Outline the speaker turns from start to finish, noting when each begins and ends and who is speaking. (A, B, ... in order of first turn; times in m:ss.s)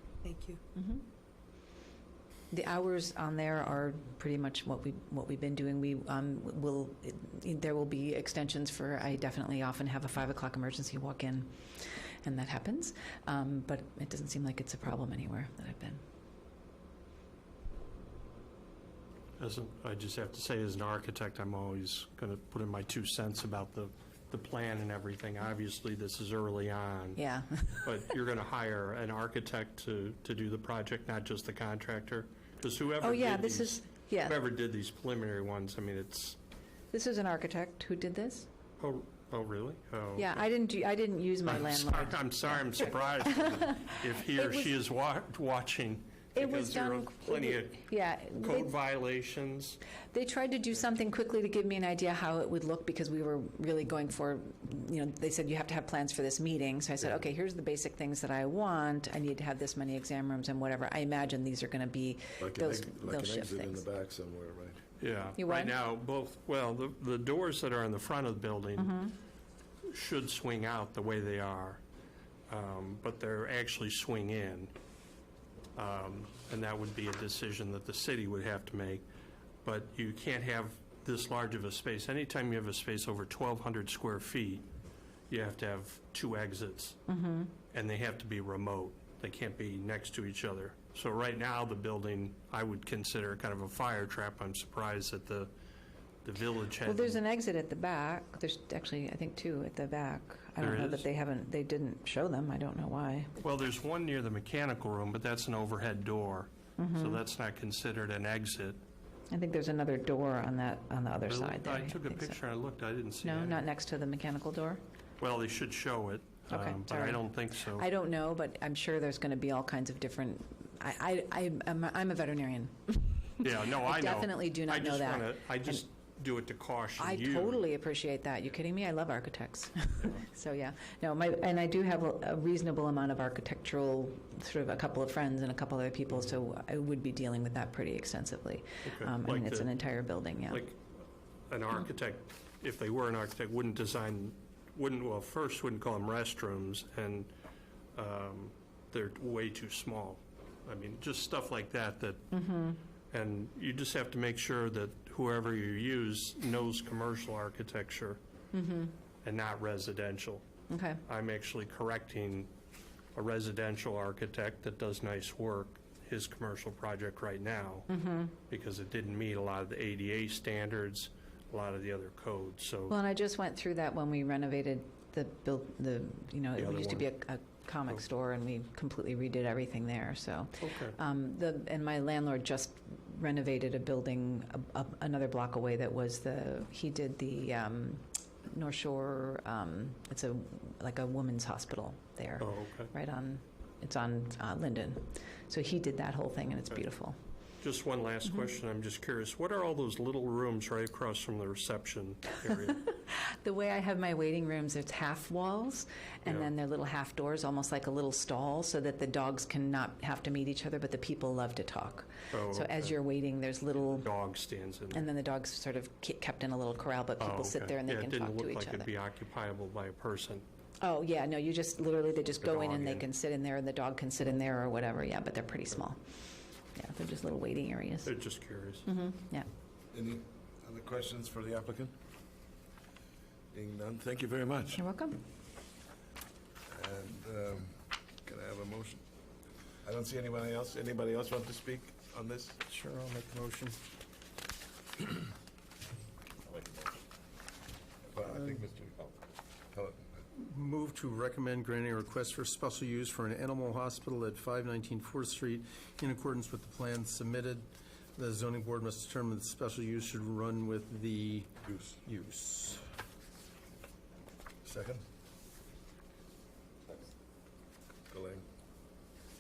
0:00.7-0:01.0 A
0:02.5-0:16.0 A
0:19.4-0:27.2 B
0:27.2-0:27.9 A
0:27.8-0:36.4 B
0:33.0-0:34.4 A
0:36.9-0:38.5 A
0:38.8-0:40.4 B
0:40.2-0:44.7 A
0:41.5-0:49.8 B
0:46.4-0:48.7 A
0:50.1-1:03.8 A
1:02.4-1:04.8 C
1:05.0-1:09.0 B
1:05.4-1:05.8 A
1:08.8-1:09.1 A
1:09.9-1:11.8 B
1:12.5-1:14.7 B
1:15.8-1:19.0 B
1:19.6-1:24.7 B
1:25.3-1:27.0 B
1:27.1-1:27.5 A
1:27.7-1:35.5 B
1:36.2-1:37.2 B
1:36.8-1:43.4 A
1:40.6-1:41.1 B
1:43.4-1:48.8 B
1:46.8-1:47.2 A
1:49.3-1:52.4 A
1:51.3-1:53.6 B
1:53.2-1:54.8 A
1:55.2-1:57.9 B
1:56.5-2:05.8 A
2:03.4-2:07.6 B
2:07.0-2:20.7 A
2:18.8-2:19.7 B
2:20.5-2:20.8 B
2:21.5-2:27.3 B
2:28.0-2:32.3 B
2:32.3-2:32.8 A
2:33.1-2:38.2 B
2:38.5-2:38.9 A
2:39.2-2:40.4 B
2:40.7-2:41.0 A
2:41.0-2:42.5 B
2:43.2-2:47.9 B
2:47.9-2:48.4 A
2:48.5-2:53.0 B
2:52.9-3:17.2 A
2:56.6-2:57.1 B
3:00.6-3:01.0 B
3:12.4-3:12.9 B
3:17.6-3:22.8 B
3:22.6-3:34.1 A
3:32.3-3:32.9 B
3:34.0-3:35.1 B
3:34.9-3:38.9 A
3:37.2-3:40.4 B
3:40.8-3:46.0 A
3:42.4-3:43.1 B
3:46.8-3:48.1 A
3:48.0-3:48.9 B
3:48.8-3:49.5 A
3:49.9-3:52.0 C
3:53.5-3:54.8 C
3:54.8-3:55.2 A
3:56.7-3:59.0 C
3:59.8-4:02.6 C
4:02.6-4:03.8 D
4:08.1-4:09.1 C
4:09.7-4:10.1 C
4:10.4-4:22.9 D
4:24.6-4:25.0 C
4:28.1-4:28.4 C